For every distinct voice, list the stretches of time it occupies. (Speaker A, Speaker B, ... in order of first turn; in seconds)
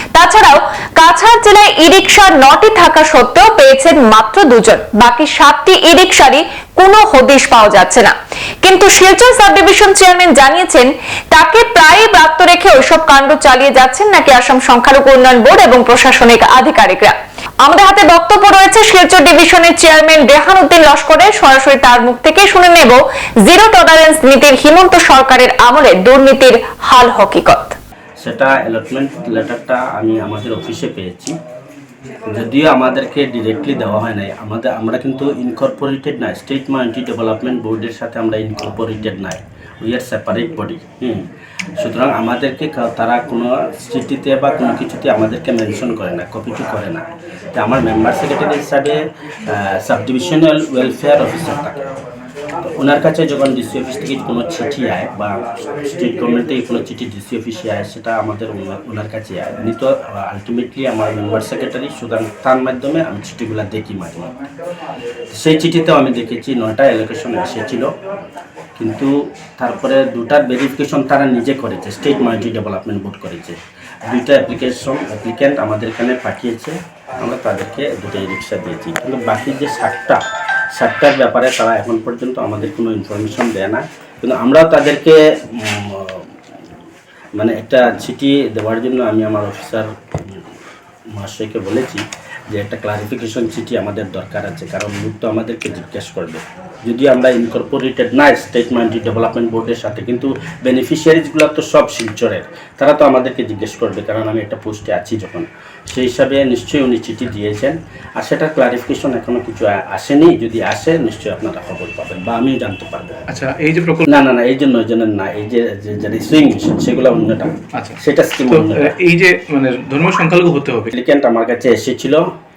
Speaker A: 0.1-27.8
Speaker B: 28.2-31.3, 32.3-41.3, 41.8-51.9, 52.6-55.3, 55.8-64.3, 65.3-67.9, 68.8-80.2, 80.8-86.3, 87.4-90.5, 91.1-113.2, 114.0-118.9, 120.9-122.2
Speaker C: 113.3-114.1, 118.5-120.9